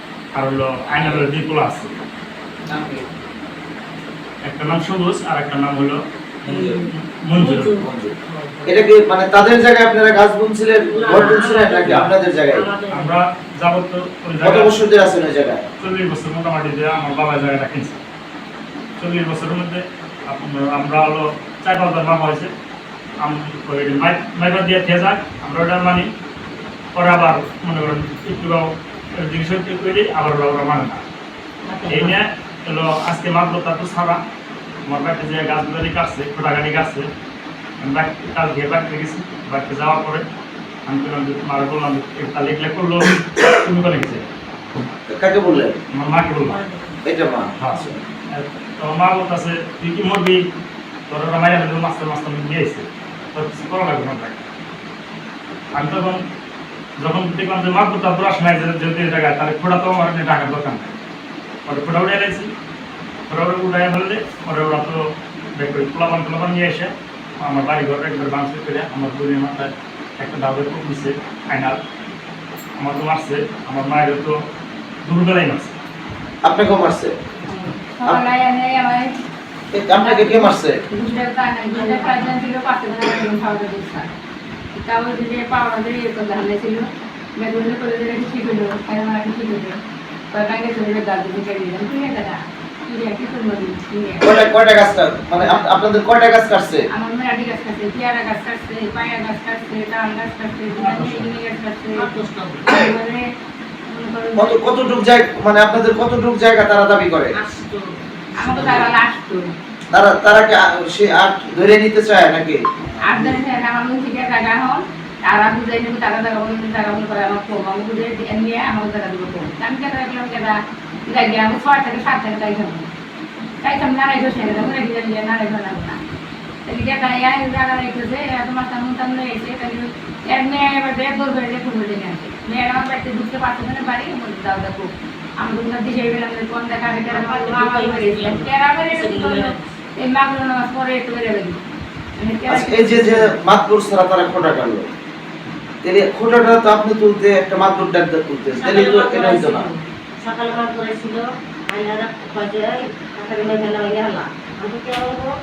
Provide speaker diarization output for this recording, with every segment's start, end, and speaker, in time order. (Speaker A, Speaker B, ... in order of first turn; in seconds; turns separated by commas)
Speaker A: 0.3-1.9, Speaker B: 1.0-1.2, Speaker B: 2.7-3.0, Speaker A: 4.4-7.7, Speaker C: 6.5-8.9, Speaker B: 7.8-8.1, Speaker B: 8.7-12.6, Speaker C: 10.8-12.0, Speaker A: 11.8-12.1, Speaker C: 12.5-13.2, Speaker A: 12.9-14.7, Speaker B: 14.4-15.6, Speaker A: 15.8-18.0, Speaker A: 19.0-22.5, Speaker A: 23.2-26.1, Speaker A: 26.9-31.0, Speaker C: 31.6-32.1, Speaker A: 31.9-34.2, Speaker A: 34.9-37.1, Speaker A: 37.8-40.2, Speaker A: 40.9-44.3, Speaker B: 45.1-45.8, Speaker A: 45.9-46.6, Speaker C: 46.4-47.0, Speaker B: 47.0-47.9, Speaker A: 47.6-50.4, Speaker A: 51.1-54.4, Speaker A: 55.8-56.2, Speaker A: 57.0-60.9, Speaker A: 61.6-62.5, Speaker A: 63.3-65.0, Speaker A: 65.5-71.8, Speaker A: 72.8-74.4, Speaker A: 75.0-75.7, Speaker B: 76.4-77.1, Speaker D: 77.5-79.1, Speaker B: 79.7-80.8, Speaker D: 79.9-84.1, Speaker C: 81.7-82.4, Speaker D: 84.7-89.8, Speaker D: 90.3-94.4, Speaker B: 94.2-96.9, Speaker D: 95.4-95.7, Speaker D: 96.9-102.1, Speaker A: 100.7-101.3, Speaker C: 102.0-102.7, Speaker D: 102.6-103.2, Speaker D: 103.9-104.6, Speaker B: 104.3-107.3, Speaker C: 107.3-108.9, Speaker D: 108.3-109.4, Speaker B: 108.5-108.9, Speaker B: 109.9-113.4, Speaker D: 113.0-120.5, Speaker D: 121.1-122.9, Speaker D: 123.6-126.0, Speaker D: 126.7-134.9, Speaker D: 135.4-141.6, Speaker C: 137.1-139.6, Speaker D: 142.2-143.4, Speaker B: 142.5-144.9, Speaker B: 145.8-149.7, Speaker C: 148.5-155.3